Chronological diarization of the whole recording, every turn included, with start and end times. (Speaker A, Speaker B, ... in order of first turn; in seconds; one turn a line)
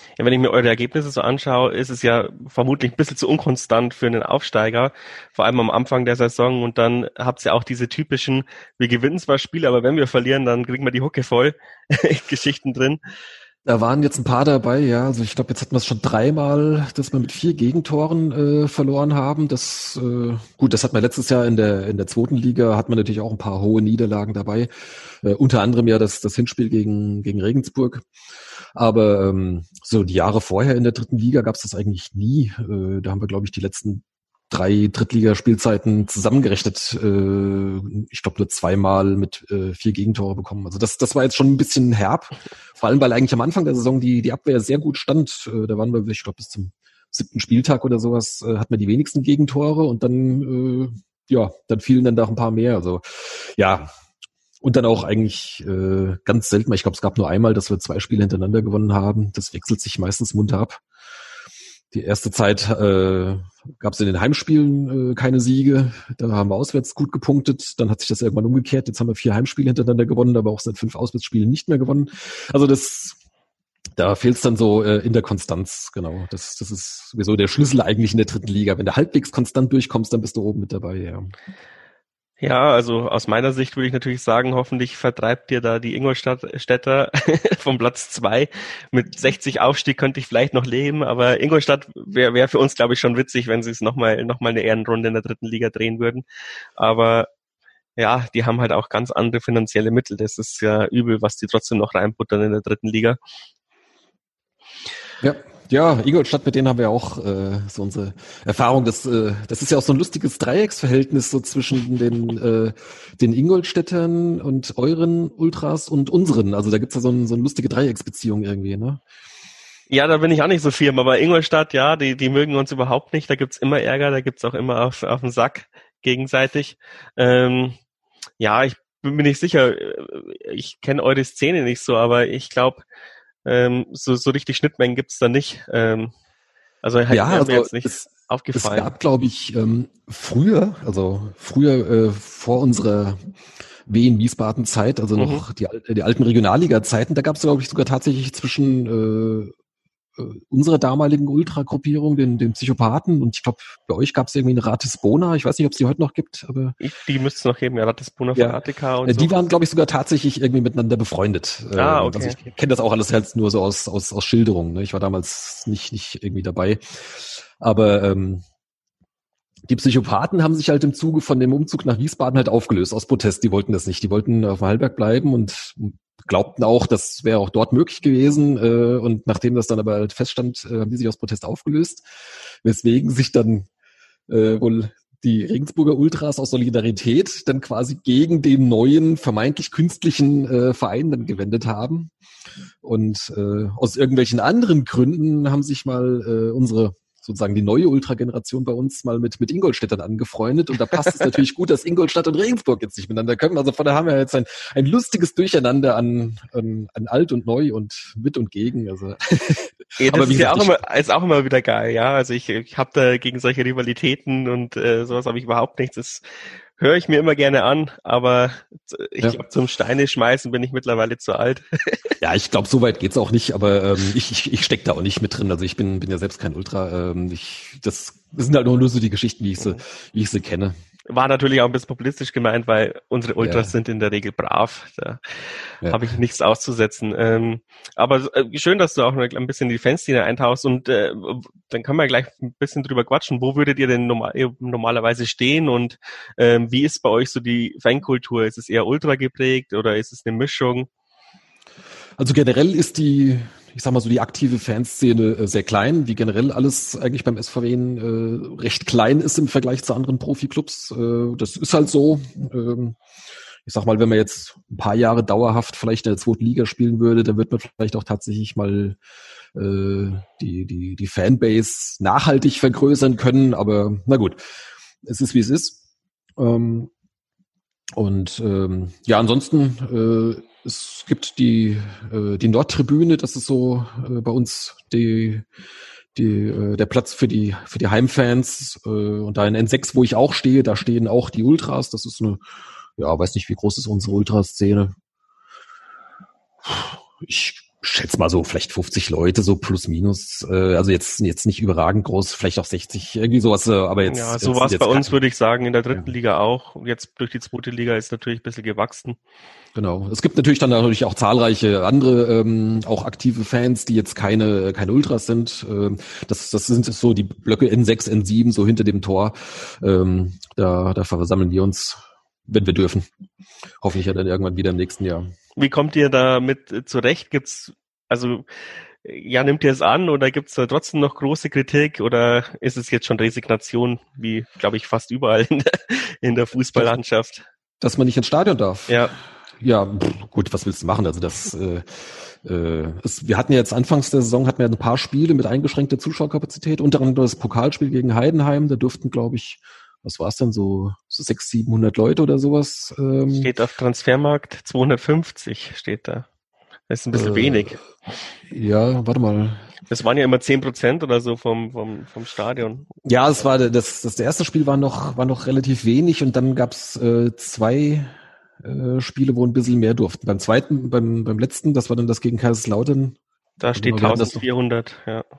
Speaker A: 0.2-13.0
Speaker B: 13.7-28.1
Speaker B: 28.8-53.9
Speaker B: 54.6-60.8
Speaker B: 61.9-73.2
Speaker B: 74.0-81.3
Speaker A: 82.4-96.2
Speaker A: 96.8-97.3
Speaker A: 98.0-103.2
Speaker B: 105.2-119.0
Speaker A: 119.9-127.8
Speaker A: 128.4-132.8
Speaker A: 133.4-136.1
Speaker A: 136.8-138.9
Speaker B: 137.1-143.3
Speaker B: 143.9-149.5
Speaker A: 145.2-145.4
Speaker B: 150.2-156.8
Speaker A: 156.8-159.3
Speaker B: 158.3-168.4
Speaker A: 161.8-162.4
Speaker B: 169.7-182.0
Speaker B: 182.6-183.7
Speaker B: 184.3-192.1
Speaker B: 192.8-210.8
Speaker A: 210.0-216.2
Speaker A: 216.8-222.1
Speaker B: 222.2-230.8
Speaker A: 231.1-235.2
Speaker B: 233.4-233.7
Speaker B: 235.8-236.1
Speaker A: 235.8-250.9
Speaker B: 252.2-263.0
Speaker B: 263.6-269.0
Speaker B: 269.5-274.4
Speaker B: 275.0-275.8
Speaker B: 276.4-276.9
Speaker B: 278.0-285.5
Speaker B: 286.1-292.4
Speaker B: 293.0-294.9
Speaker B: 296.6-305.1
Speaker A: 304.1-309.2
Speaker B: 309.8-323.1
Speaker B: 323.8-325.3
Speaker A: 325.6-328.5
Speaker A: 329.0-337.5
Speaker B: 337.8-339.1
Speaker A: 338.9-339.1
Speaker B: 339.6-353.5
Speaker A: 353.3-356.3
Speaker A: 356.9-357.8
Speaker B: 357.1-357.8
Speaker B: 358.5-359.7
Speaker A: 359.9-362.9
Speaker B: 363.1-373.2
Speaker A: 373.6-375.2
Speaker B: 373.8-374.4